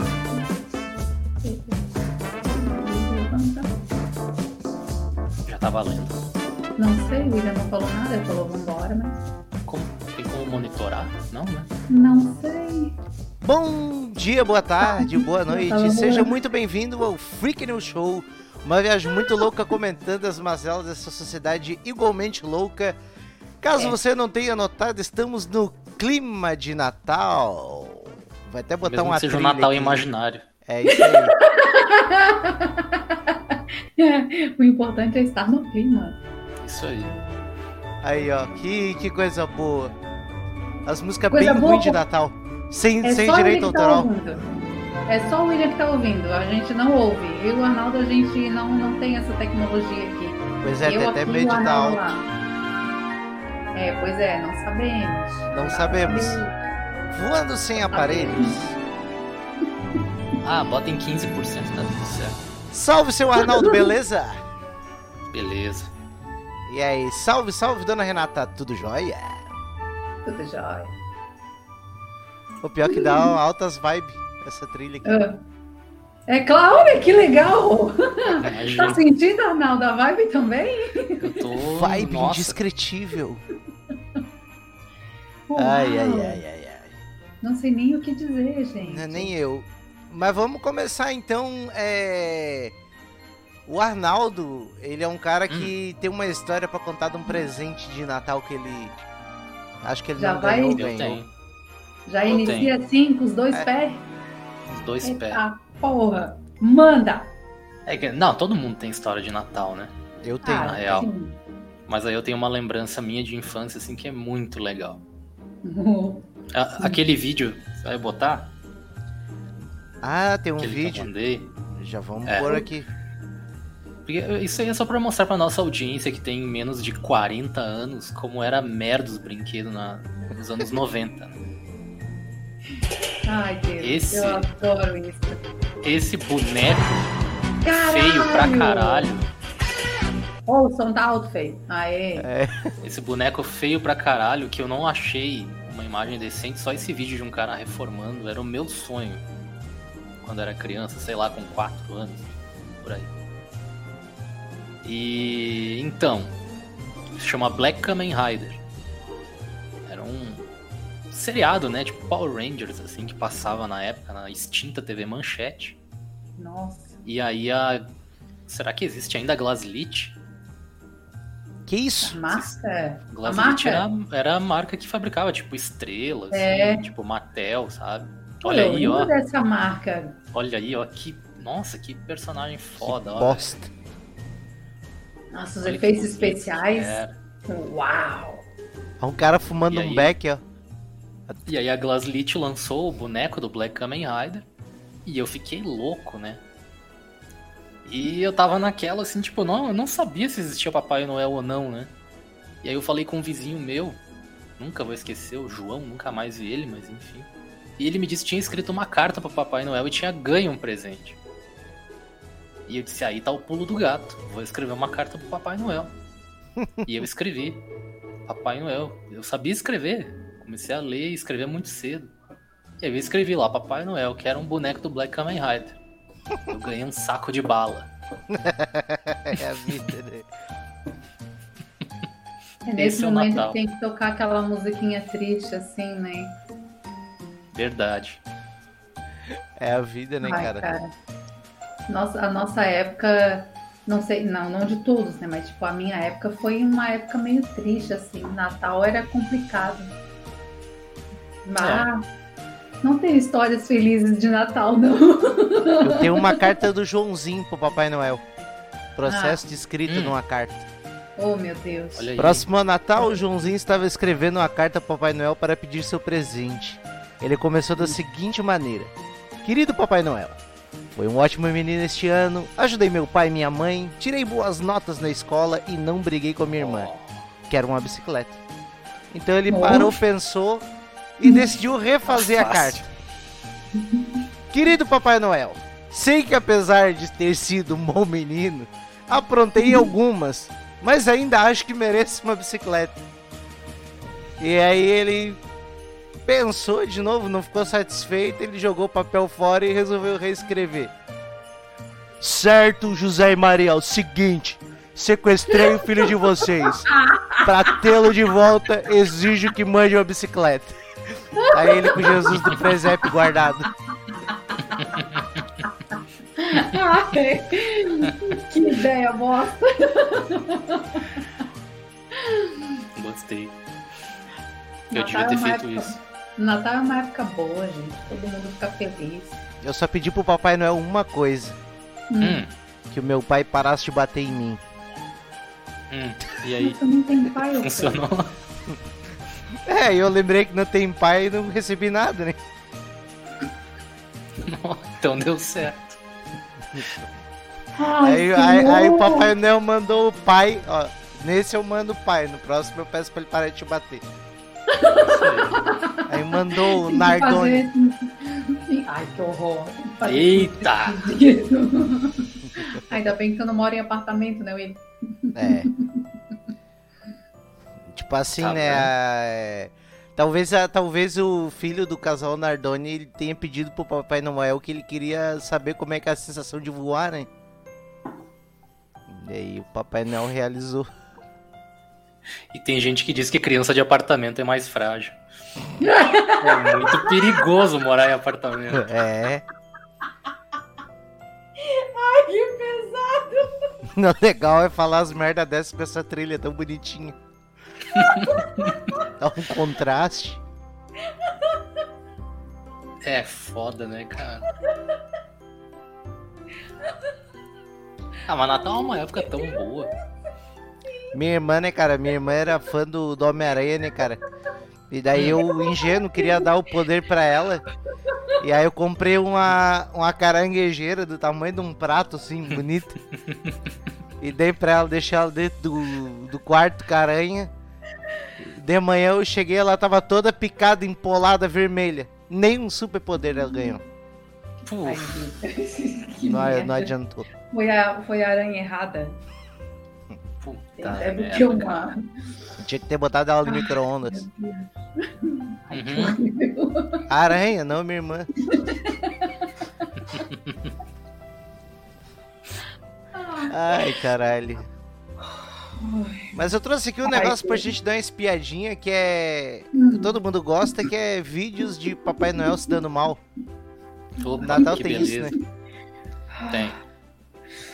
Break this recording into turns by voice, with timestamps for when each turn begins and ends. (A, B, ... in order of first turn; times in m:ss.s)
0:01.4-0:01.8 A
0:02.4-0:03.7 A
0:05.5-0:06.2 B
0:06.8-0:09.2 A
0:09.7-0:11.7 B
0:11.9-0:13.0 A
0:13.4-0:23.0 C
0:14.8-0:16.4 A
0:23.6-0:30.1 C
0:28.8-0:30.4 B
0:30.7-0:31.3 C
0:30.9-0:36.2 A
0:36.6-0:37.2 B
0:38.0-0:40.0 C
0:40.8-0:44.1 C
0:41.3-0:42.0 A
0:43.0-0:52.3 A
0:50.6-0:52.2 C
0:53.7-0:56.7 A
0:55.5-0:56.4 C
0:57.1-0:58.8 C
0:57.9-0:58.6 A
1:00.4-1:02.4 B
1:02.7-1:04.4 C
1:03.4-1:03.9 A
1:05.3-1:05.9 B
1:06.7-1:09.5 C
1:10.2-1:10.9 A
1:12.6-1:15.2 C
1:12.9-1:13.4 A
1:15.0-1:15.4 A
1:16.3-1:21.4 A
1:18.3-1:19.0 B
1:21.2-1:22.6 B
1:21.8-1:23.4 C
1:25.5-1:26.4 A
1:25.6-1:26.9 C
1:27.4-1:29.3 A
1:28.8-1:32.8 C
1:33.7-1:39.0 C
1:35.5-1:35.7 B
1:39.8-1:41.2 C
1:40.2-1:40.9 A
1:40.8-1:41.3 B
1:42.1-1:44.1 A
1:42.2-1:42.7 B
1:44.7-1:45.4 B
1:45.0-1:47.3 A
1:47.9-1:49.9 B
1:50.2-1:51.0 C
1:50.4-1:51.4 A
1:50.6-1:51.1 B
1:51.9-1:55.0 B
1:55.6-1:56.3 A
1:56.5-1:58.5 B
2:00.0-2:01.1 C
2:00.6-2:01.6 B
2:01.8-2:02.9 C
2:02.3-2:02.7 B
2:04.1-2:11.4 B
2:13.2-2:15.4 A
2:13.8-2:14.5 B
2:15.8-2:17.1 B
2:17.6-2:19.1 A
2:17.8-2:19.3 B
2:20.5-2:22.3 A
2:22.2-2:22.7 C
2:22.8-2:29.2 B
2:30.2-2:33.1 B
2:34.8-2:36.4 B
2:37.2-2:38.6 B
2:39.9-2:40.5 B
2:41.1-2:45.8 B
2:46.4-2:47.0 A
2:47.0-2:47.9 B
2:48.5-2:50.2 B
2:51.7-2:52.2 C
2:52.0-2:53.8 A
2:53.1-2:59.1 B
2:56.3-2:56.9 A
2:58.4-3:00.2 A
3:00.3-3:03.5 B
3:02.8-3:03.7 C
3:05.3-3:08.4 A
3:05.6-3:07.1 B
3:09.0-3:10.4 C
3:09.7-3:10.1 B
3:11.5-3:14.5 B
3:15.0-3:16.4 B
3:17.8-3:21.9 B
3:22.6-3:24.0 B
3:24.6-3:31.2 B
3:32.7-3:35.9 B
3:36.6-3:36.9 C
3:36.8-3:37.6 B
3:38.3-3:42.1 B
3:42.8-3:45.8 B
3:46.5-3:47.9 B
3:48.3-3:50.3 C
3:52.6-3:56.4 A
3:52.8-3:53.6 B
3:57.5-3:58.2 B
3:59.6-4:00.7 C
4:00.2-4:00.9 A
4:01.9-4:10.0 A
4:11.4-4:12.0 A
4:11.6-4:11.9 B
4:12.8-4:16.5 A
4:15.8-4:18.2 C
4:19.0-4:20.7 C
4:19.1-4:19.4 A
4:19.9-4:20.2 B
4:21.2-4:22.1 A
4:22.0-4:22.5 B
4:22.2-4:28.9 C
4:29.4-4:30.4 C
4:31.0-4:36.9 C
4:36.6-4:37.2 B
4:37.5-4:38.4 C
4:39.1-4:40.7 C
4:39.5-4:40.0 A
4:41.2-4:42.8 C
4:41.2-4:41.5 A
4:42.1-4:42.9 B
4:43.8-4:44.2 A
4:44.5-4:53.0 C
4:49.6-4:49.9 A
4:54.4-4:55.4 C
4:56.3-5:00.9 C
5:02.2-5:06.9 C
5:05.5-5:05.8 A
5:06.6-5:08.1 A
5:07.4-5:13.7 C
5:11.4-5:12.3 A
5:14.5-5:14.8 A
5:14.9-5:15.2 B
5:16.4-5:21.2 A
5:22.1-5:22.8 A
5:23.0-5:23.6 B
5:24.9-5:26.0 B
5:24.9-5:29.4 A
5:29.6-5:31.6 C
5:32.1-5:32.4 A
5:32.2-5:32.5 B
5:32.9-5:34.6 C
5:35.9-5:36.8 B
5:36.6-5:38.0 A
5:37.6-5:38.3 B
5:39.7-5:42.4 C
5:44.4-5:46.0 B
5:47.8-5:49.3 A
5:48.0-5:54.1 C
5:54.7-6:05.9 A
5:55.0-5:55.6 B
5:56.1-5:57.7 C
6:00.0-6:01.1 B
6:02.4-6:03.0 C
6:05.4-6:05.7 C
6:07.9-6:17.3 C
6:08.4-6:08.9 B
6:19.1-6:20.9 C
6:22.5-6:25.2 B
6:25.8-6:27.2 A
6:26.4-6:28.9 B
6:28.7-6:29.4 C
6:31.6-6:33.7 A
6:33.9-6:37.2 C
6:37.9-6:38.8 B
6:39.1-6:40.4 C
6:43.0-6:44.5 B
6:48.3-6:49.9 B
6:51.1-6:54.2 C
6:54.9-6:57.6 C
6:58.4-7:03.0 C
7:04.2-7:07.5 C
7:08.4-7:13.8 C
7:14.7-7:15.2 B
7:14.8-7:16.9 A
7:16.2-7:17.3 C
7:17.5-7:19.2 A
7:20.4-7:21.8 B
7:20.8-7:22.1 A
7:22.6-7:24.2 C
7:23.4-7:27.1 A
7:25.7-7:26.2 B
7:27.1-7:28.3 C
7:28.4-7:30.2 A
7:33.2-7:34.0 A
7:33.5-7:34.7 C
7:35.4-7:36.4 A
7:36.3-7:43.2 C
7:37.1-7:37.7 A
7:39.7-7:40.2 A
7:44.2-7:45.3 B
7:44.3-7:45.1 A
7:44.4-7:45.3 C
7:46.3-7:46.8 A
7:46.5-7:46.8 B